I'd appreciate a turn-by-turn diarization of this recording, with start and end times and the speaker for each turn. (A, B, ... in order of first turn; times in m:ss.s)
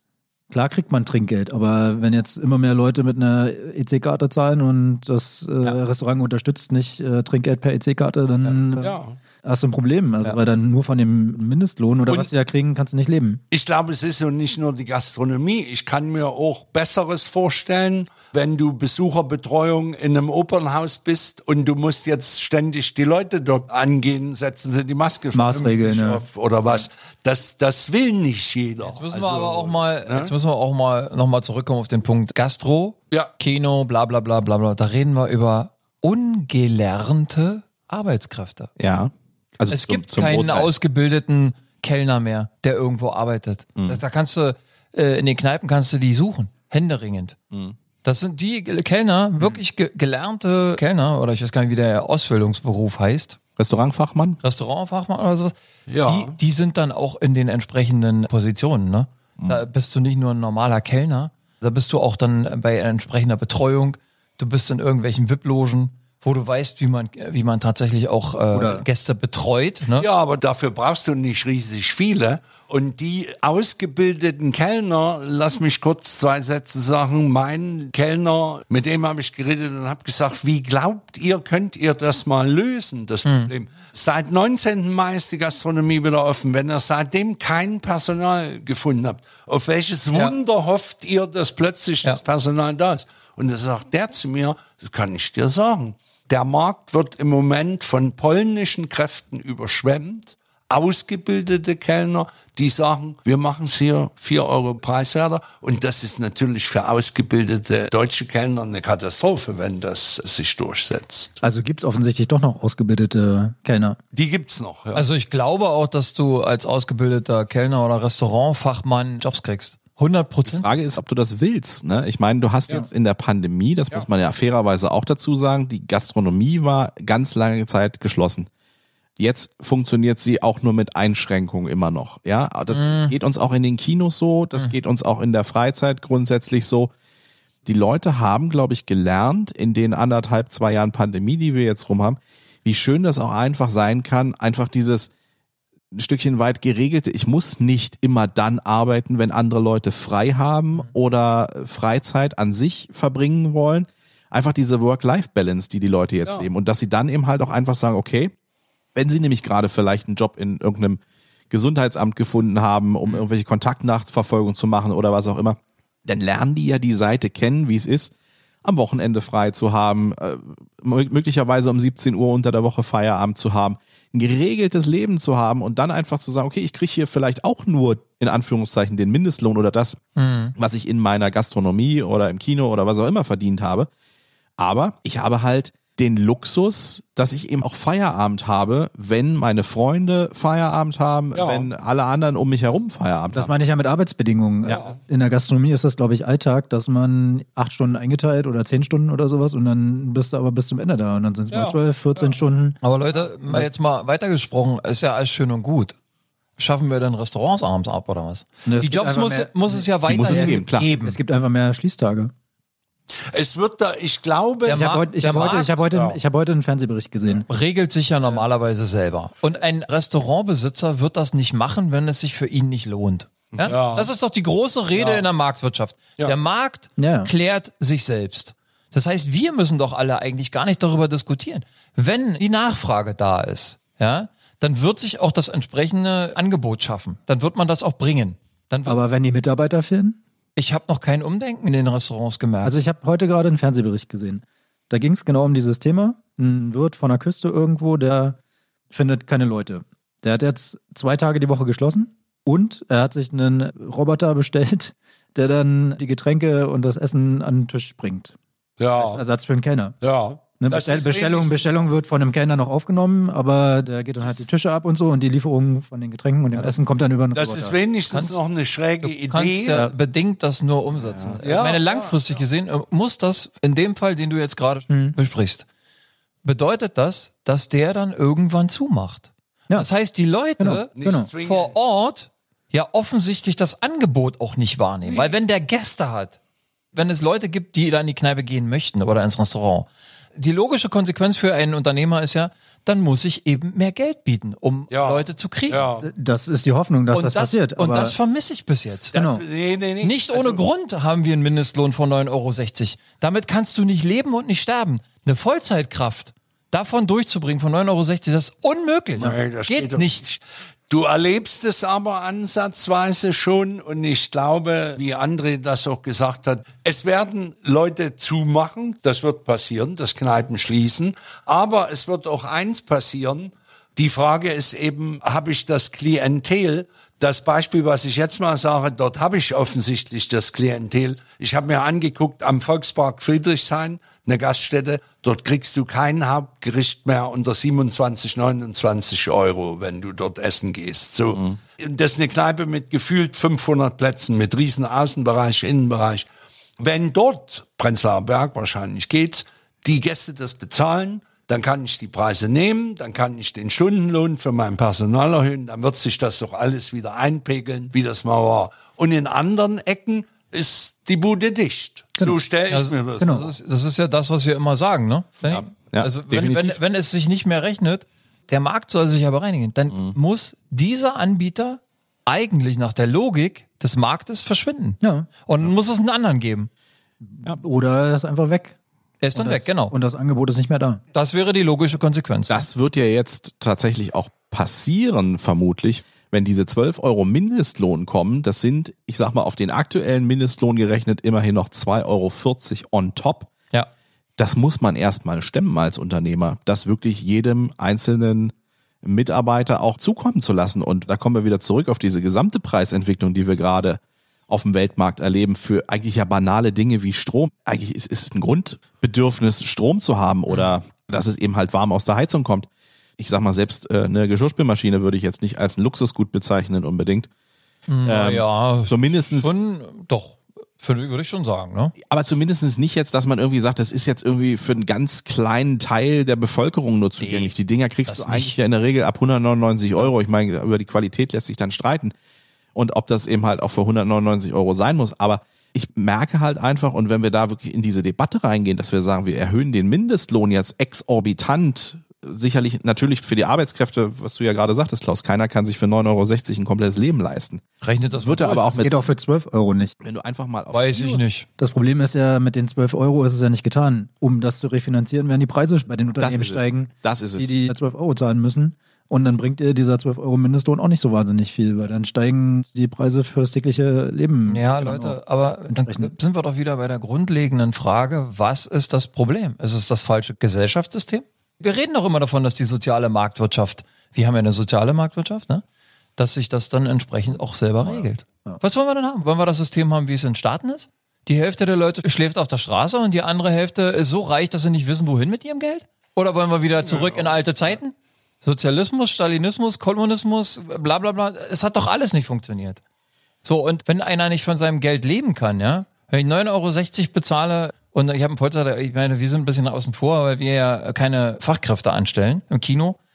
0:00.5-0:13.4 A
0:08.8-0:09.2 B
0:13.5-0:30.3 B
0:25.3-0:26.2 A
0:28.8-0:38.7 C
0:38.8-0:40.7 D
0:39.7-0:47.4 C
0:48.0-0:53.4 C
0:53.6-0:54.4 D
0:54.4-1:10.1 C
0:55.9-0:56.4 B
1:08.5-1:08.8 A
1:10.0-1:51.4 B
1:23.2-1:23.5 C
1:51.4-1:54.0 A
1:54.1-1:55.1 B
1:54.9-2:00.7 C
2:00.4-2:08.5 D
2:09.2-2:16.9 D
2:12.7-2:13.1 C
2:17.6-2:25.1 D
2:25.9-2:38.3 D
2:38.9-2:48.1 D
2:48.6-3:00.0 D
3:00.2-3:00.6 C
3:00.6-3:03.9 D
3:04.6-3:13.5 D
3:11.3-3:11.7 B
3:13.3-3:22.8 A
3:14.6-3:15.0 B
3:21.5-3:22.3 B
3:22.8-3:26.0 C
3:26.6-3:31.2 C
3:28.6-3:32.3 A
3:30.0-3:30.9 D
3:33.3-3:34.8 B
3:34.6-3:35.8 C
3:34.7-3:37.5 A
3:35.8-3:36.2 B
3:37.5-3:59.1 C
3:43.6-3:44.1 B
3:44.9-3:45.3 B
3:47.0-3:47.3 A
3:58.9-4:00.2 A
4:00.6-4:02.8 C
4:02.6-4:08.4 A
4:08.9-4:18.4 A
4:18.8-4:19.2 B
4:19.0-4:20.0 A
4:20.0-4:21.8 B
4:20.6-4:27.8 A
4:27.3-4:29.8 B
4:28.1-4:28.4 C
4:29.0-4:35.6 C
4:29.7-4:29.9 A
4:31.0-4:31.4 D
4:31.4-4:32.2 B
4:34.9-4:35.2 A
4:36.4-4:46.4 C
4:40.6-4:41.3 A
4:41.0-4:41.8 B
4:45.1-4:45.3 B
4:46.9-4:55.9 C
4:54.9-4:56.1 B
4:56.0-4:58.1 A
4:57.1-4:59.2 C
4:59.1-5:00.6 B
4:59.1-4:59.4 A
5:00.0-5:10.3 C
5:09.2-5:46.3 B
5:46.8-6:03.4 B
6:02.7-6:16.7 C
6:03.2-6:03.5 A
6:05.5-6:06.8 D
6:15.0-6:15.3 A
6:17.2-6:18.8 A
6:19.2-6:19.9 C
6:19.4-6:21.0 A
6:21.1-6:22.6 C
6:22.5-6:33.5 D
6:34.4-6:57.3 D
6:50.5-6:50.7 C
6:57.9-7:01.9 C
6:58.0-6:59.5 D
7:02.0-7:12.1 D
7:07.2-7:07.5 C
7:08.1-7:08.6 C
7:12.8-7:27.6 D
7:27.8-7:28.8 C
7:28.2-7:29.1 D
7:28.7-7:30.0 A
7:30.0-7:31.2 D
7:30.7-7:31.4 C
7:31.6-7:46.1 A
7:36.2-7:37.5 D
7:44.5-7:55.6 C
7:56.2-8:12.8 C
8:06.8-8:07.3 B
8:13.4-8:23.0 C